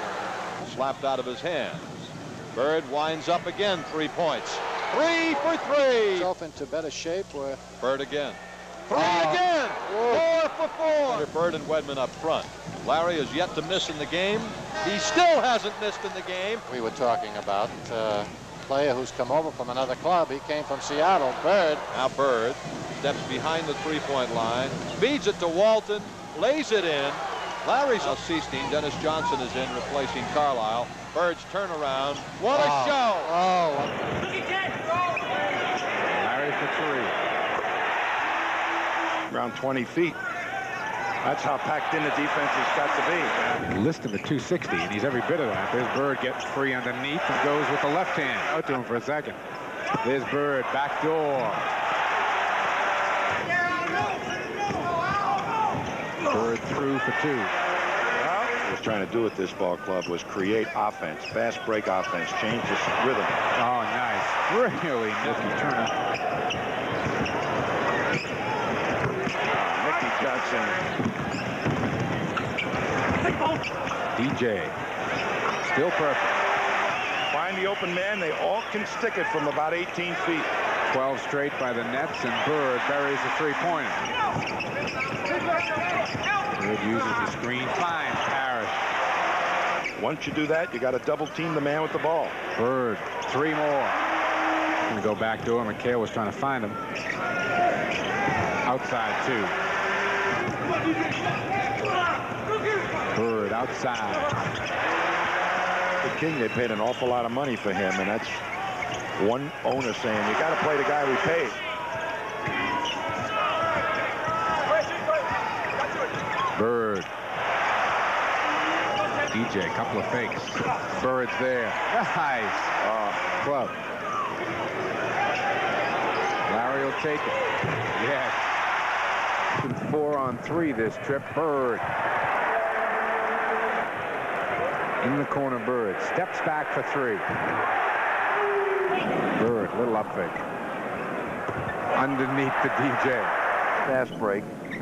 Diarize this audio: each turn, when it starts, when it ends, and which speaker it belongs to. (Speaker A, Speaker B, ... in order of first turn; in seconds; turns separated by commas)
Speaker A: 0.6-6.3, Speaker B: 6.0-7.6, Speaker A: 7.8-16.6, Speaker B: 8.9-11.3, Speaker B: 16.7-21.9, Speaker A: 21.9-33.3, Speaker B: 32.5-34.0, Speaker C: 36.0-37.2, Speaker D: 39.3-40.2, Speaker D: 41.2-43.3, Speaker C: 43.7-49.4, Speaker C: 50.0-51.7, Speaker C: 56.2-57.5, Speaker D: 58.2-63.4, Speaker C: 63.5-66.0, Speaker D: 69.5-70.9, Speaker C: 74.2-74.8, Speaker C: 75.6-76.4, Speaker D: 77.3-80.5, Speaker C: 80.9-84.1, Speaker C: 86.5-88.9, Speaker D: 90.0-92.4, Speaker C: 92.5-94.0, Speaker C: 94.8-96.8, Speaker C: 98.6-99.6, Speaker C: 103.1-104.3, Speaker D: 106.0-108.4, Speaker D: 109.2-111.6, Speaker C: 116.5-117.1, Speaker C: 119.3-122.7, Speaker D: 122.8-123.2, Speaker C: 123.2-123.8, Speaker C: 126.5-128.5, Speaker C: 129.6-131.9, Speaker C: 135.0-137.3, Speaker C: 139.3-140.4, Speaker C: 141.9-143.4, Speaker D: 143.8-144.5